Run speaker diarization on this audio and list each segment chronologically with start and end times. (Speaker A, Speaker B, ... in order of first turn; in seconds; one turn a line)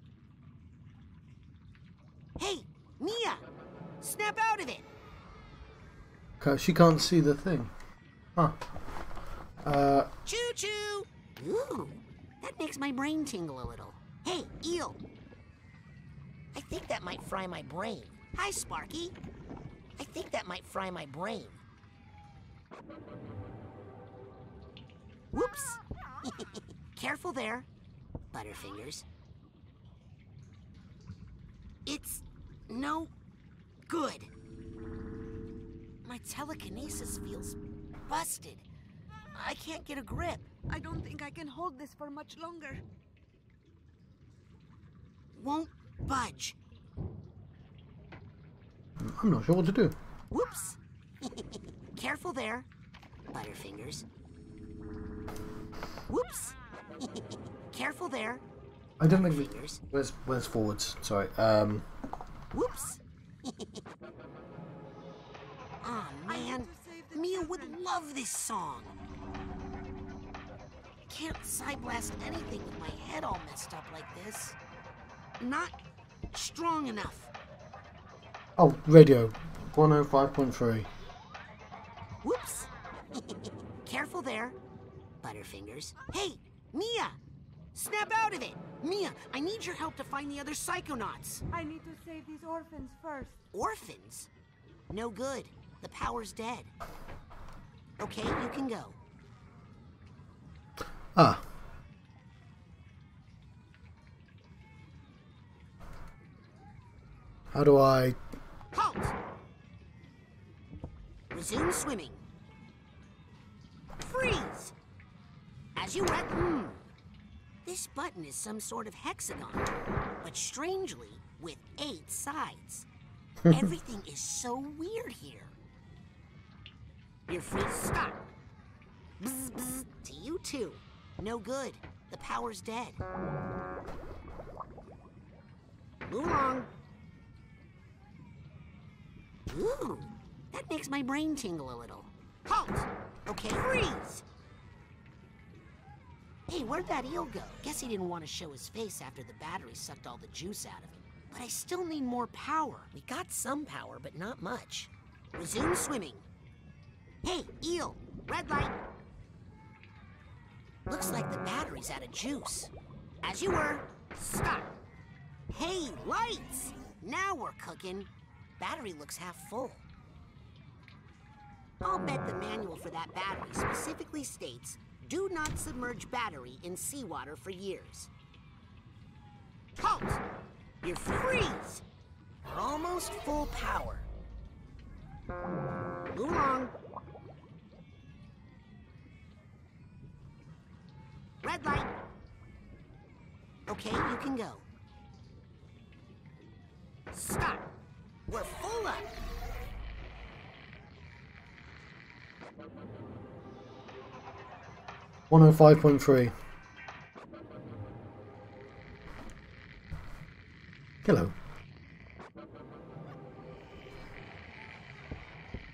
Speaker A: 2.4-3.5
Speaker A: 4.0-4.9
Speaker B: 6.4-7.7
Speaker B: 9.6-10.1
Speaker A: 10.2-15.0
Speaker A: 16.5-19.2
Speaker A: 19.9-21.6
Speaker A: 25.3-27.7
Speaker A: 28.3-29.1
Speaker A: 31.9-33.1
Speaker A: 33.9-34.3
Speaker A: 36.0-38.7
Speaker A: 39.3-40.5
Speaker C: 40.7-42.8
Speaker A: 45.4-46.6
Speaker B: 49.0-50.0
Speaker A: 50.3-52.7
Speaker A: 53.3-54.0
Speaker A: 56.1-58.5
Speaker B: 59.0-61.9
Speaker A: 59.0-59.8
Speaker A: 62.5-63.9
Speaker A: 65.8-69.0
Speaker C: 66.2-67.9
Speaker A: 71.1-74.6
Speaker A: 75.4-77.3
Speaker B: 78.6-80.9
Speaker A: 82.2-84.6
Speaker A: 85.2-87.2
Speaker A: 87.7-91.4
Speaker C: 91.5-93.4
Speaker A: 93.5-94.3
Speaker A: 94.9-96.7
Speaker A: 98.0-99.0
Speaker B: 101.1-101.5
Speaker B: 107.5-108.2
Speaker A: 108.7-109.1
Speaker A: 111.3-112.2
Speaker A: 114.0-114.7
Speaker A: 115.8-116.8
Speaker A: 117.6-119.7
Speaker A: 120.2-122.9
Speaker A: 123.5-125.5
Speaker A: 127.3-128.2
Speaker A: 129.2-133.0
Speaker A: 136.1-136.7
Speaker A: 139.5-144.2
Speaker A: 146.5-156.3
Speaker A: 157.2-158.8
Speaker A: 160.9-162.7
Speaker A: 163.2-164.7
Speaker A: 165.5-169.8
Speaker A: 171.8-178.1
Speaker A: 179.8-180.2
Speaker A: 180.8-181.8
Speaker A: 182.4-184.1
Speaker A: 186.1-186.7
Speaker A: 191.4-191.9
Speaker A: 193.7-194.7
Speaker A: 197.1-197.7
Speaker A: 198.3-199.1
Speaker B: 205.3-206.3
Speaker B: 211.0-211.3